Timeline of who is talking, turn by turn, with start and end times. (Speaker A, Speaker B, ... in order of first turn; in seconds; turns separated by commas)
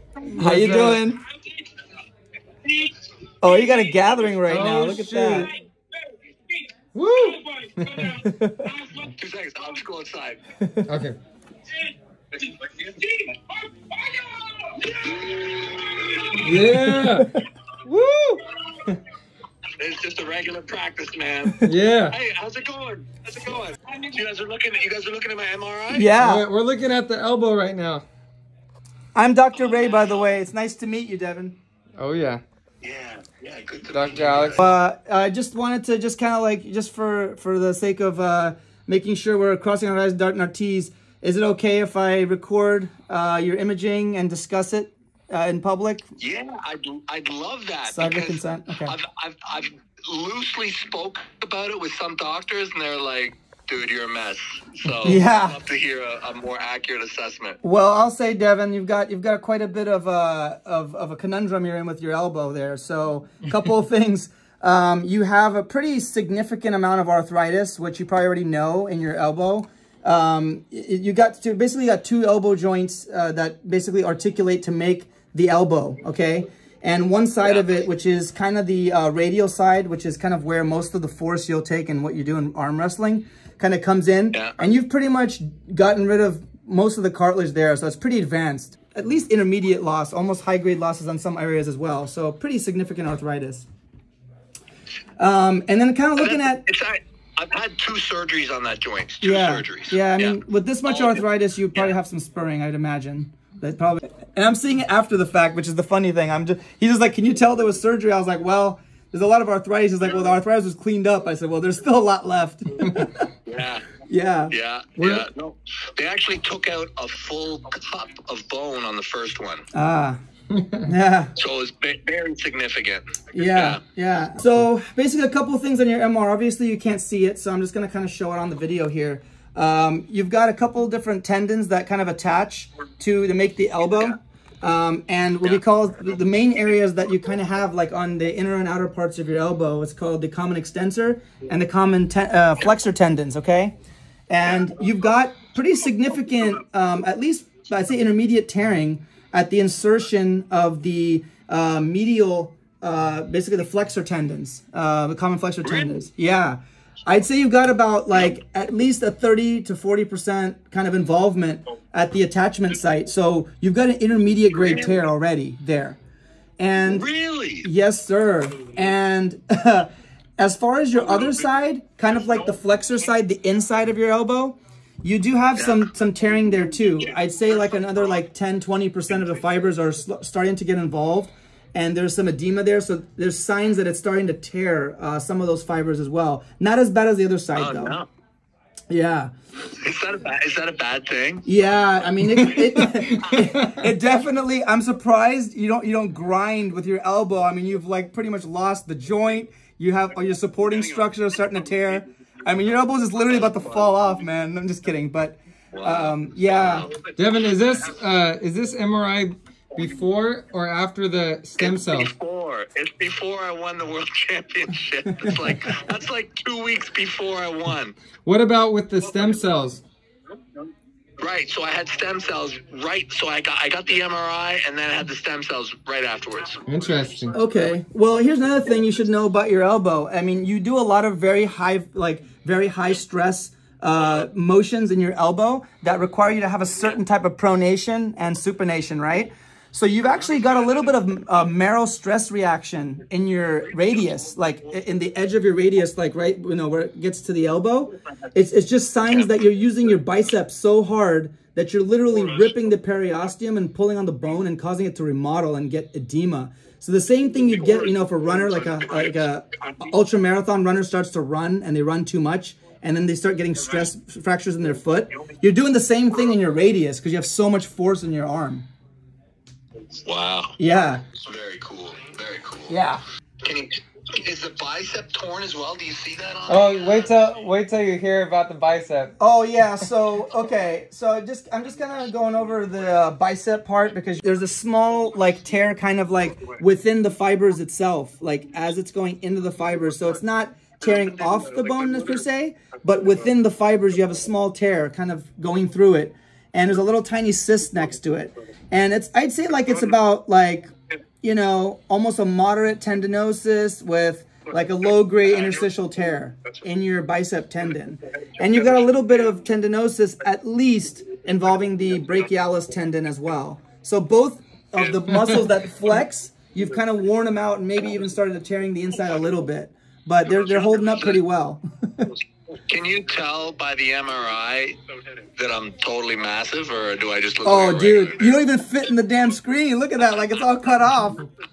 Speaker A: 0.2-1.0, Speaker B: 0.4-1.2, Speaker B: 3.4-5.5, Speaker A: 4.5-5.5, Speaker A: 6.9-8.2, Speaker B: 8.2-8.8, Speaker C: 9.0-10.4, Speaker B: 10.6-10.9, Speaker A: 10.9-11.2, Speaker C: 12.4-13.3, Speaker C: 14.1-16.6, Speaker A: 16.4-17.3, Speaker B: 16.6-17.4, Speaker A: 17.8-18.4, Speaker C: 19.8-26.1, Speaker A: 21.6-22.1, Speaker B: 25.9-26.4, Speaker A: 26.2-28.0, Speaker B: 29.1-31.6, Speaker C: 29.7-29.9, Speaker A: 32.0-32.4, Speaker C: 32.8-34.8, Speaker A: 33.9-34.6, Speaker B: 34.6-46.1, Speaker C: 46.2-57.6, Speaker B: 47.9-48.9, Speaker B: 55.0-55.6, Speaker B: 57.6-93.7, Speaker C: 77.4-77.8, Speaker C: 84.3-84.6, Speaker B: 95.2-96.6, Speaker C: 96.2-101.2, Speaker B: 99.2-113.2, Speaker C: 113.5-113.9, Speaker B: 114.1-115.2, Speaker C: 114.5-119.7, Speaker B: 119.7-120.2, Speaker A: 120.5-120.9, Speaker B: 120.8-121.3, Speaker C: 121.4-123.8, Speaker B: 123.3-143.7, Speaker B: 144.3-166.0, Speaker C: 155.6-156.1, Speaker C: 164.5-165.0, Speaker B: 166.6-167.1, Speaker C: 166.8-167.7, Speaker B: 167.6-188.0, Speaker C: 175.5-175.9, Speaker C: 176.7-178.2, Speaker C: 187.6-188.1, Speaker B: 188.9-189.3, Speaker C: 189.8-191.4, Speaker B: 191.4-206.9, Speaker C: 192.4-193.5, Speaker A: 192.4-193.9, Speaker C: 200.7-201.0, Speaker C: 203.2-204.0, Speaker C: 205.7-207.9, Speaker A: 207.2-212.1, Speaker C: 211.6-217.9, Speaker A: 218.2-219.8, Speaker C: 221.2-226.7, Speaker A: 226.7-227.4, Speaker B: 227.3-268.7, Speaker C: 240.0-241.0, Speaker C: 243.6-244.8, Speaker C: 257.4-259.9, Speaker C: 269.9-270.6, Speaker B: 270.6-271.0, Speaker C: 271.1-272.8, Speaker B: 272.7-273.0, Speaker C: 273.4-277.2, Speaker A: 276.5-279.1, Speaker B: 279.2-300.7, Speaker C: 290.9-292.2, Speaker B: 301.2-322.1, Speaker C: 305.3-305.6, Speaker C: 308.4-309.0, Speaker C: 314.8-315.5, Speaker C: 320.3-321.2, Speaker C: 322.7-324.8, Speaker C: 325.4-328.3, Speaker B: 327.4-331.2